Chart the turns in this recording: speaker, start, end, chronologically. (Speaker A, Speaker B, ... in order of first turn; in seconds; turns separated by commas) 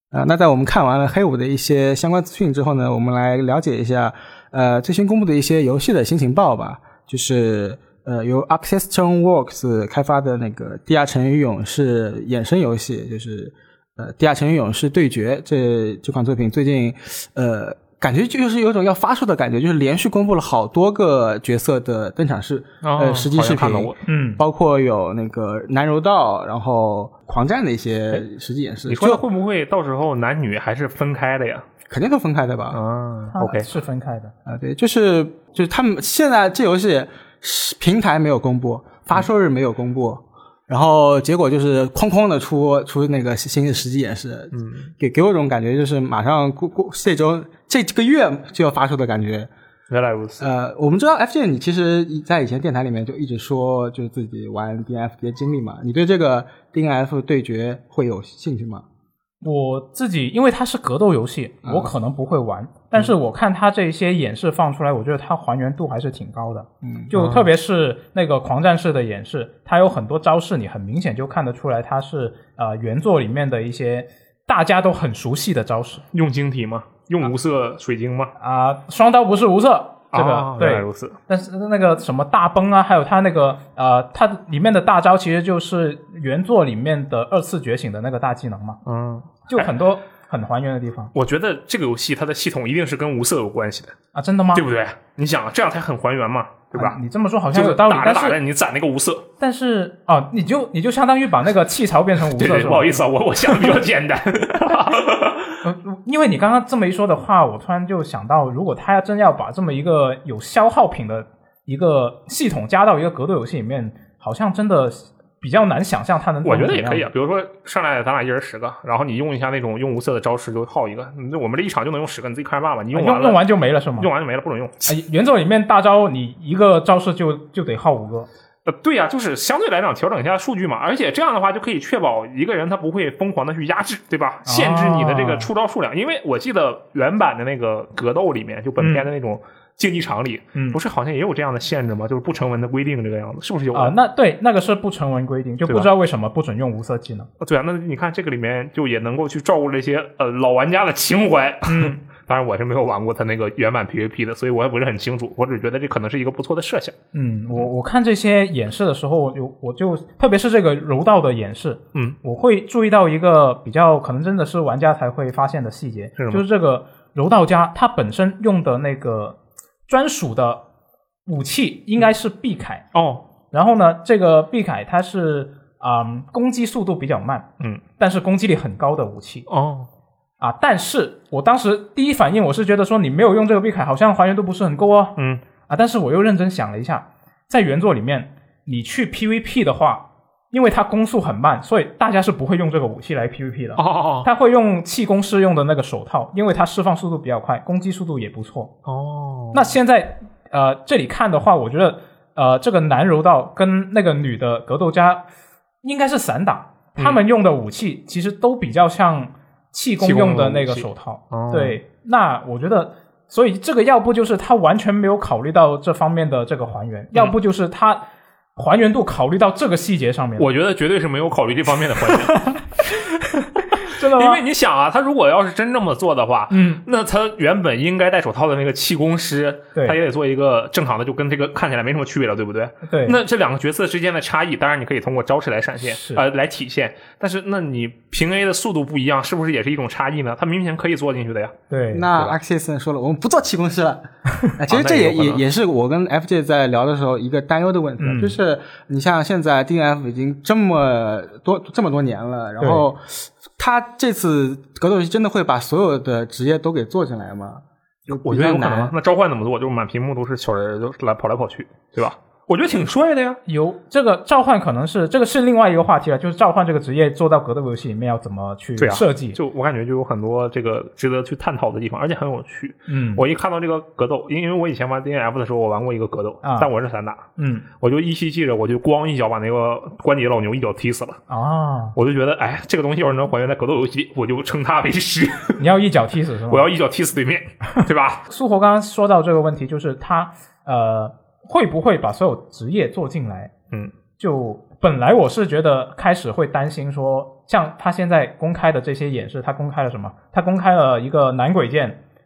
Speaker A: 0.1-29.2, Speaker B: 22.8-24.0, Speaker C: 24.1-24.4, Speaker B: 28.9-31.6, Speaker A: 31.9-32.8, Speaker B: 32.7-33.7, Speaker C: 33.3-34.3, Speaker A: 34.5-49.5, Speaker B: 44.5-44.9, Speaker B: 49.9-50.5, Speaker A: 50.4-58.9, Speaker C: 59.4-76.0, Speaker A: 61.6-61.9, Speaker A: 66.8-67.1, Speaker B: 67.2-67.5, Speaker B: 76.1-78.3, Speaker C: 78.4-88.8, Speaker B: 80.1-81.2, Speaker B: 88.8-89.7, Speaker C: 89.5-91.1, Speaker B: 91.1-94.0, Speaker C: 94.1-94.7, Speaker B: 94.5-97.0, Speaker C: 96.7-98.4, Speaker B: 97.5-99.3, Speaker C: 99.4-103.8, Speaker B: 102.3-105.6, Speaker C: 105.6-117.1, Speaker B: 116.4-123.4, Speaker C: 122.9-124.1, Speaker B: 124.0-124.9, Speaker C: 124.9-128.3, Speaker B: 128.7-143.9, Speaker C: 134.5-135.5, Speaker C: 138.8-139.1, Speaker C: 140.6-140.8, Speaker C: 143.7-147.3, Speaker B: 145.7-145.9, Speaker B: 147.4-157.0, Speaker C: 151.7-152.0, Speaker C: 157.1-170.6, Speaker B: 166.2-166.4, Speaker C: 171.3-172.8, Speaker B: 172.9-173.3, Speaker C: 173.5-177.5, Speaker C: 178.0-179.5, Speaker B: 179.5-179.9, Speaker C: 180.4-198.7, Speaker B: 185.2-185.4, Speaker B: 193.8-194.3, Speaker B: 198.8-199.7, Speaker C: 199.5-205.2, Speaker C: 205.8-218.0, Speaker B: 210.0-211.8, Speaker C: 218.6-220.5, Speaker B: 220.4-241.6, Speaker C: 223.4-224.4, Speaker C: 226.5-226.8, Speaker C: 232.9-233.2, Speaker C: 235.8-236.2, Speaker C: 241.7-242.1, Speaker A: 241.9-244.0, Speaker A: 244.6-258.9, Speaker B: 244.7-245.4, Speaker C: 248.0-248.4, Speaker C: 252.6-252.8, Speaker B: 258.1-263.4, Speaker C: 263.5-269.4, Speaker B: 268.8-277.3, Speaker C: 272.9-273.2, Speaker C: 276.4-276.7, Speaker C: 277.4-277.7, Speaker B: 277.8-281.2, Speaker C: 281.3-282.0, Speaker B: 281.9-285.6, Speaker C: 285.6-286.7, Speaker B: 286.5-288.2, Speaker C: 288.3-293.5, Speaker C: 294.2-302.0